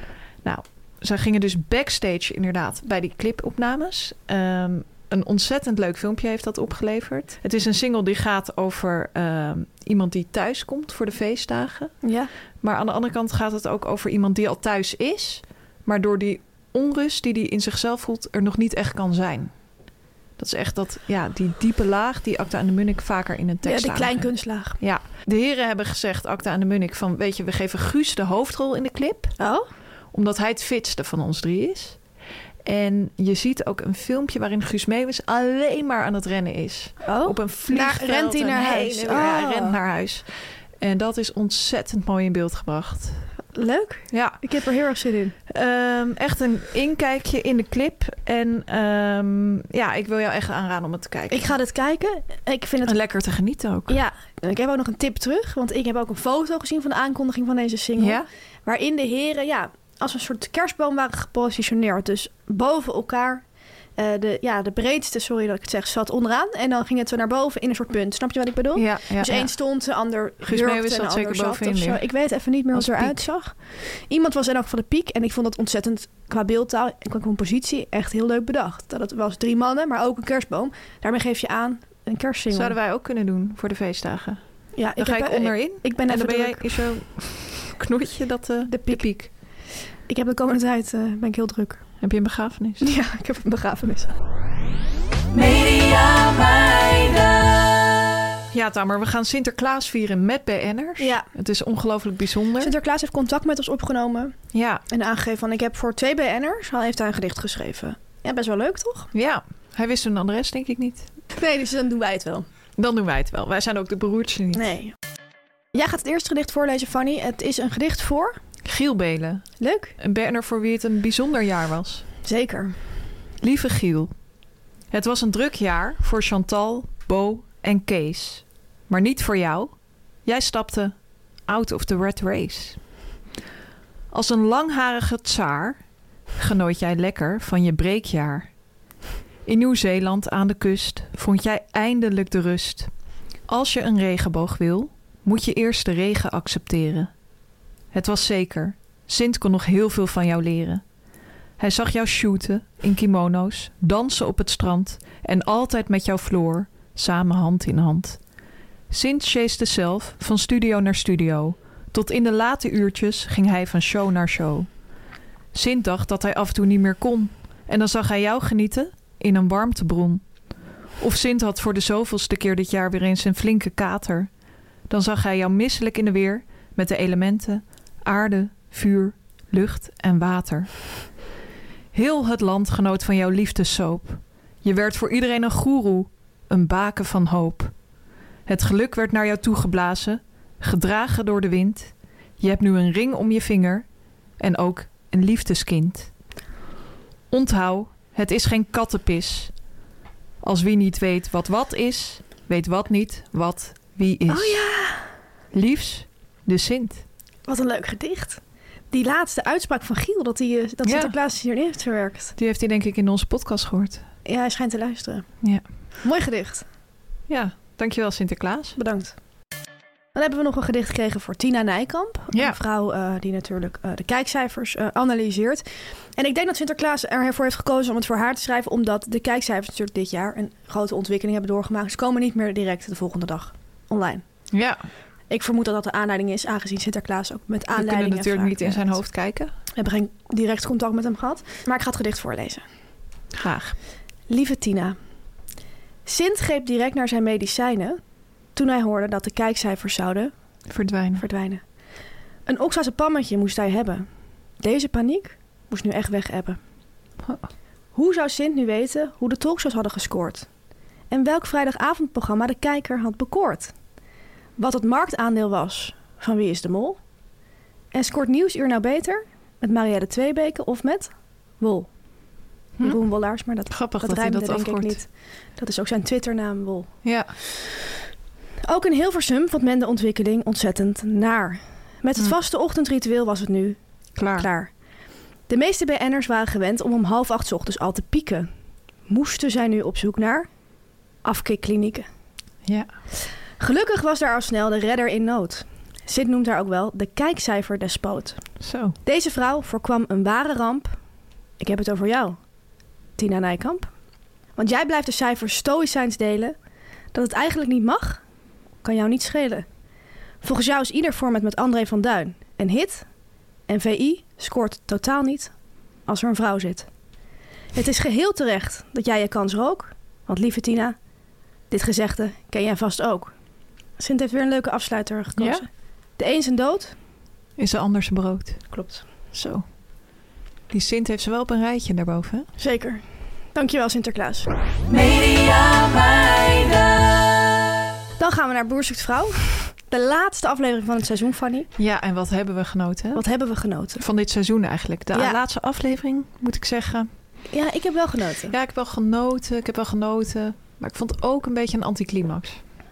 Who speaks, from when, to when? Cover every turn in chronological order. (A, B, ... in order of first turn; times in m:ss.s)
0:00.4-0:12.0 A
0:12.0-0:12.3 B
0:12.6-0:19.5 A
0:20.4-0:29.4 A
0:23.6-0:24.8 B
0:29.4-0:29.6 B
0:30.1-0:32.0 A
0:32.6-0:40.3 A
0:37.0-0:39.8 B
0:40.8-0:43.2 A
0:43.5-0:45.3 B
0:44.1-0:44.4 A
0:45.5-0:51.5 A
0:51.3-0:52.9 B
0:52.8-0:54.0 A
0:53.9-1:03.4 B
0:58.0-0:58.2 A
1:04.0-1:22.8 B
1:08.7-1:09.5 A
1:10.4-1:12.0 A
1:12.7-1:13.2 A
1:22.5-1:24.4 A
1:24.7-1:26.7 B
1:25.0-1:29.3 A
1:28.7-1:29.1 B
1:30.1-1:31.8 B
1:32.0-1:32.9 A
1:32.8-1:34.1 B
1:35.3-1:37.9 C
1:38.5-1:42.7 A
1:41.0-1:41.3 B
1:42.6-1:44.3 B
1:44.5-1:44.8 A
1:44.9-1:49.1 B
1:49.1-1:51.1 A
1:51.3-1:52.4 B
1:52.8-1:54.7 A
1:54.5-1:54.9 B
1:55.7-1:58.4 B
1:58.6-1:59.4 A
1:59.6-1:59.9 B
2:00.0-2:02.0 A
2:02.2-2:02.8 B
2:03.4-2:04.1 A
2:04.9-2:09.7 A
2:10.2-2:10.9 A
2:11.5-2:12.8 A
2:14.1-2:15.8 A
2:16.4-2:18.5 A
2:19.4-2:22.9 A
2:23.5-2:27.1 A
2:27.9-2:30.8 A
2:31.6-2:38.2 A
2:38.9-2:44.7 A
2:45.5-2:50.2 A
2:51.0-2:54.3 A
2:54.9-3:00.7 A
3:01.9-3:07.7 A
3:08.4-3:13.8 A
3:14.4-3:16.1 A
3:17.3-3:19.5 A
3:20.4-3:24.6 A
3:24.3-3:25.1 B
3:25.5-3:27.0 A
3:27.5-3:28.4 B
3:28.9-3:32.3 B
3:30.8-3:31.2 A
3:32.4-3:34.0 A
3:34.2-3:35.3 B
3:36.0-3:36.6 B
3:37.3-3:38.8 A
3:38.8-3:39.1 B
3:40.1-3:45.6 B
3:42.3-3:42.6 A
3:46.2-3:54.2 B
3:54.5-3:54.8 A
3:55.3-3:59.0 B
3:57.7-3:59.5 A
3:59.7-4:02.6 B
4:03.3-4:03.8 A
4:04.3-4:05.0 B
4:06.0-4:08.0 B
4:08.5-4:10.3 B
4:10.7-4:11.2 A
4:11.2-4:11.6 B
4:12.5-4:14.1 B
4:14.6-4:16.6 B
4:17.9-4:20.5 B
4:21.1-4:23.7 B
4:24.6-4:27.0 B
4:27.9-4:31.9 B
4:32.8-4:36.9 B
4:33.7-4:35.0 A
4:37.0-4:37.3 A
4:38.6-4:43.8 B
4:44.2-4:44.5 A
4:44.3-4:44.7 B
4:45.5-4:48.5 B
4:49.1-4:50.5 B
4:51.2-4:52.1 B
4:53.6-4:58.4 B
4:58.6-4:59.0 A
4:59.0-5:01.0 B
5:01.6-5:02.4 B
5:03.2-5:03.9 B
5:04.6-5:06.5 B
5:07.1-5:08.2 B
5:08.8-5:09.6 B
5:10.4-5:13.1 B
5:13.7-5:15.5 B
5:16.0-5:16.9 B
5:17.7-5:21.0 B
5:21.7-5:23.3 B
5:24.0-5:25.7 B
5:25.4-5:25.6 A
5:26.2-5:26.9 B
5:27.6-5:28.6 A
5:28.7-5:29.0 B
5:29.3-5:29.6 A
5:30.7-5:32.5 A
5:32.6-5:33.0 B
5:33.5-5:34.5 B
5:34.9-5:37.5 C
5:38.2-5:41.7 B
5:41.8-5:43.2 A
5:43.1-5:44.0 B
5:44.0-5:47.1 A
5:45.1-5:45.4 B
5:47.5-5:48.5 B
5:48.5-5:52.6 A